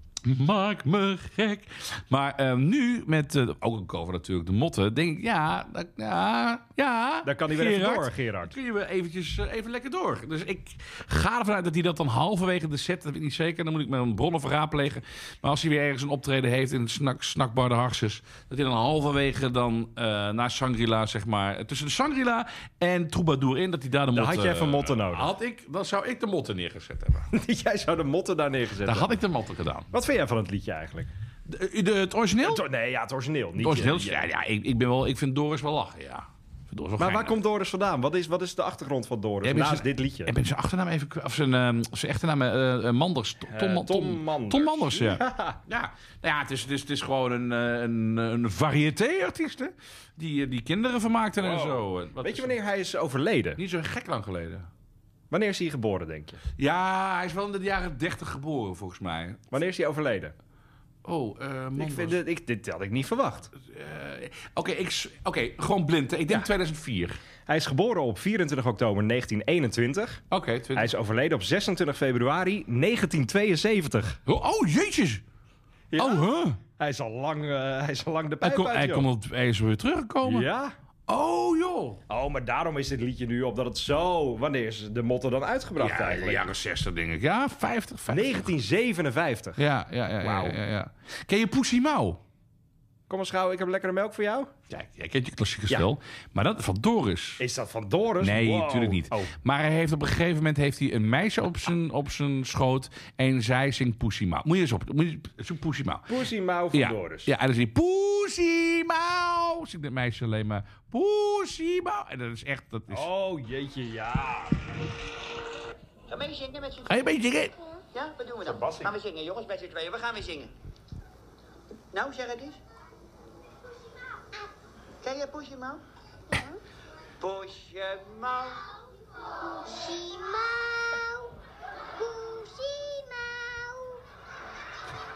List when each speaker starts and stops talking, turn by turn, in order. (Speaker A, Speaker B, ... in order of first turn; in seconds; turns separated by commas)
Speaker A: 0.2-27.3, Speaker B: 7.2-8.6, Speaker B: 24.1-25.3, Speaker B: 27.3-29.2, Speaker A: 28.9-29.9, Speaker B: 29.9-31.1, Speaker A: 31.4-32.6, Speaker B: 32.4-34.2, Speaker A: 33.6-37.4, Speaker B: 37.0-40.3, Speaker A: 39.4-52.6, Speaker B: 43.5-45.6, Speaker B: 51.4-53.6, Speaker A: 53.6-54.7, Speaker B: 55.3-56.4, Speaker A: 56.6-59.5, Speaker B: 59.5-60.3, Speaker A: 61.0-62.2, Speaker B: 61.8-63.5, Speaker A: 63.6-67.2, Speaker B: 67.5-70.2, Speaker A: 70.3-70.9, Speaker B: 70.8-74.2, Speaker A: 74.3-75.2, Speaker B: 75.9-79.1, Speaker A: 76.0-76.6, Speaker A: 78.4-80.5, Speaker B: 80.2-80.7, Speaker A: 81.1-82.0, Speaker B: 82.1-86.5, Speaker A: 85.8-88.5, Speaker B: 88.1-89.6, Speaker A: 89.6-92.2, Speaker B: 90.2-90.6, Speaker B: 93.1-94.5, Speaker A: 94.7-97.4, Speaker B: 97.4-99.3, Speaker A: 98.2-106.1, Speaker B: 106.1-107.3, Speaker A: 106.7-113.1, Speaker B: 112.9-114.7, Speaker C: 116.1-117.1, Speaker A: 116.9-117.5, Speaker C: 117.9-120.5, Speaker B: 118.4-119.0, Speaker C: 121.9-122.6, Speaker C: 125.0-126.6, Speaker C: 127.2-128.7, Speaker C: 129.5-131.3, Speaker C: 131.9-134.0